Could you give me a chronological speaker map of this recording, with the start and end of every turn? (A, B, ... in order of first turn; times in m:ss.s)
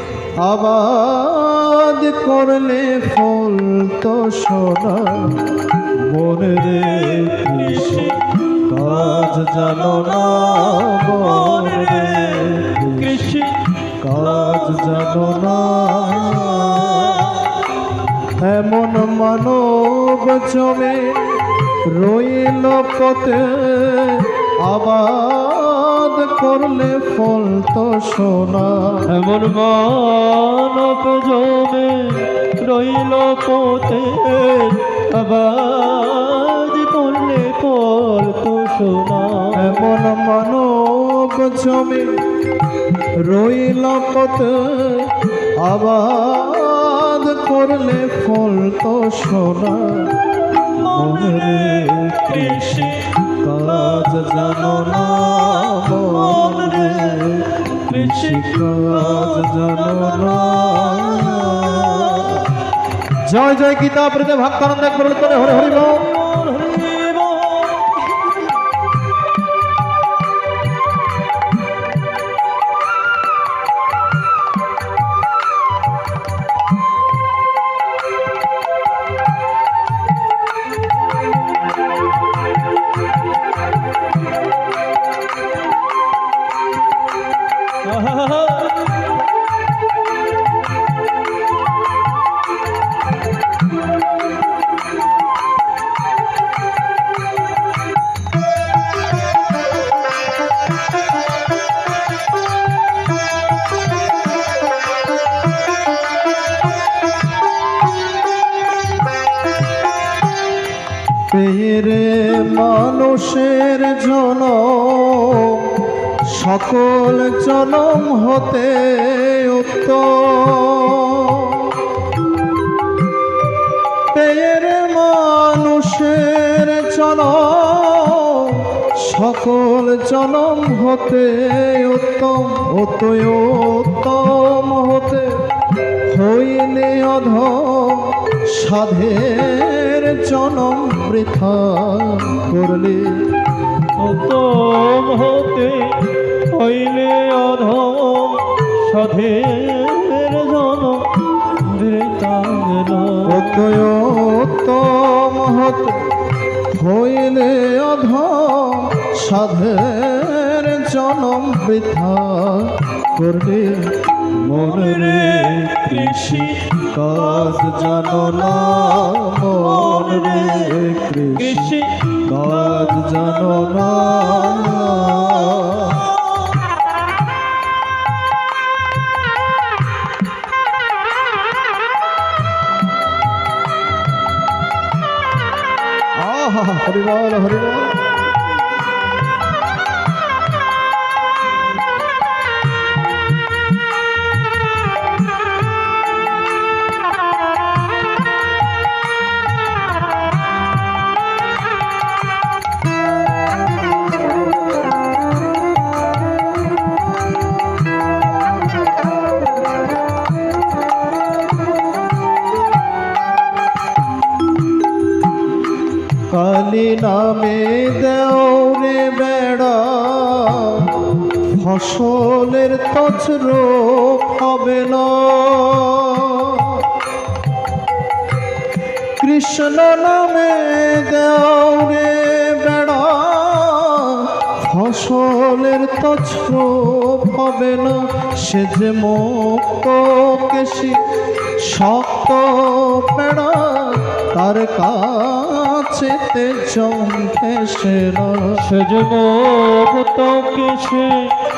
0:00.4-0:13.2 A
0:07.1-0:08.3 B
0:11.1-0:13.7 B
0:14.0-0:17.5 A
0:17.1-0:17.5 B
0:18.4-0:29.1 A
0:29.1-0:39.9 B
0:39.6-0:42.2 A
0:43.2-0:50.2 A
0:50.7-1:02.5 A
0:50.8-0:53.0 B
0:56.0-1:02.5 B
1:03.2-1:06.0 A
1:05.4-1:08.3 B
1:27.8-1:28.8 B
1:51.3-2:01.8 A
2:04.1-2:15.5 A
2:16.0-2:23.3 A
2:24.0-2:33.8 B
2:33.2-2:56.2 A
2:45.8-2:46.6 B
2:49.9-2:50.7 B
2:51.4-2:52.1 B
3:06.2-3:07.9 A
3:36.3-3:46.9 A
3:49.2-4:01.0 A
4:01.6-4:08.6 A
4:08.6-4:11.4 B